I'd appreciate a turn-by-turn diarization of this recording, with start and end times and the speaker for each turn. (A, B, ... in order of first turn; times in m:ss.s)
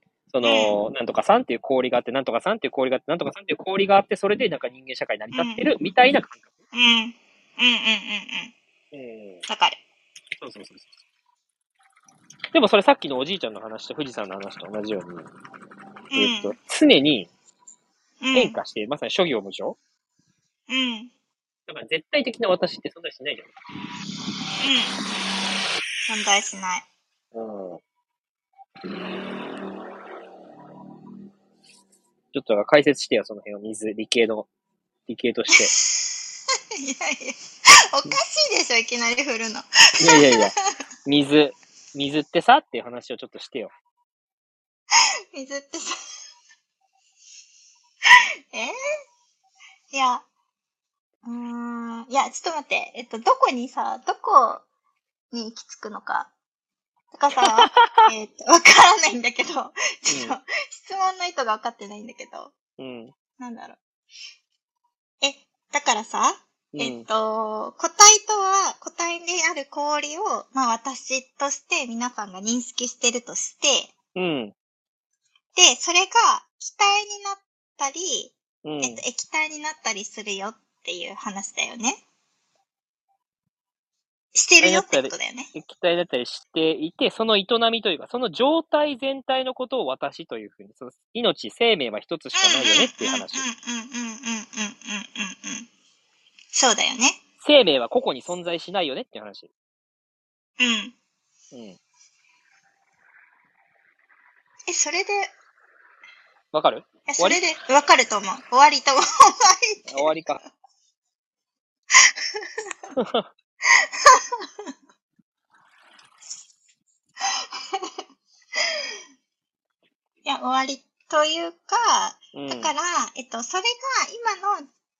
0:00.3-0:06.5 A
0:00.4-0:00.7 B
0:05.3-0:05.7 B
0:06.7-0:08.5 B
0:08.9-0:09.4 A
0:09.5-0:09.8 B
0:10.4-0:10.9 A
0:12.5-0:15.3 A
0:16.1-0:16.5 B
0:16.1-0:17.3 A
0:18.2-0:18.6 B
0:18.3-0:19.8 A
0:20.7-0:21.1 B
0:21.7-0:23.5 A
0:24.6-0:25.0 B
0:26.0-0:26.8 B
0:27.3-0:27.8 A
0:32.3-0:34.5 A
0:35.1-0:35.7 A
0:35.6-0:36.1 B
0:36.8-0:40.6 B
0:40.0-0:40.5 A
0:41.0-0:43.7 A
0:45.3-0:46.0 B
0:49.9-0:50.2 B
0:51.2-0:54.6 B
0:55.3-0:56.3 B
0:57.1-1:02.5 B
0:57.4-0:58.1 A
1:00.1-1:00.4 A
1:02.8-1:03.1 A
1:03.4-1:03.8 B
1:05.2-1:13.9 B
1:06.7-1:07.1 A
1:14.2-1:14.5 A
1:15.5-1:22.0 B
1:18.6-1:19.0 A
1:24.3-1:25.5 B
1:24.6-1:33.5 A
1:32.3-1:35.7 B
1:36.5-1:37.2 B
1:37.4-1:39.5 A
1:40.6-1:40.9 B
1:41.5-1:41.8 A
1:44.7-1:45.3 B
1:46.5-1:47.4 A
1:47.1-1:50.1 B
1:49.9-1:50.4 A
1:53.0-1:53.3 A
2:00.2-2:04.7 B
2:02.3-2:02.7 A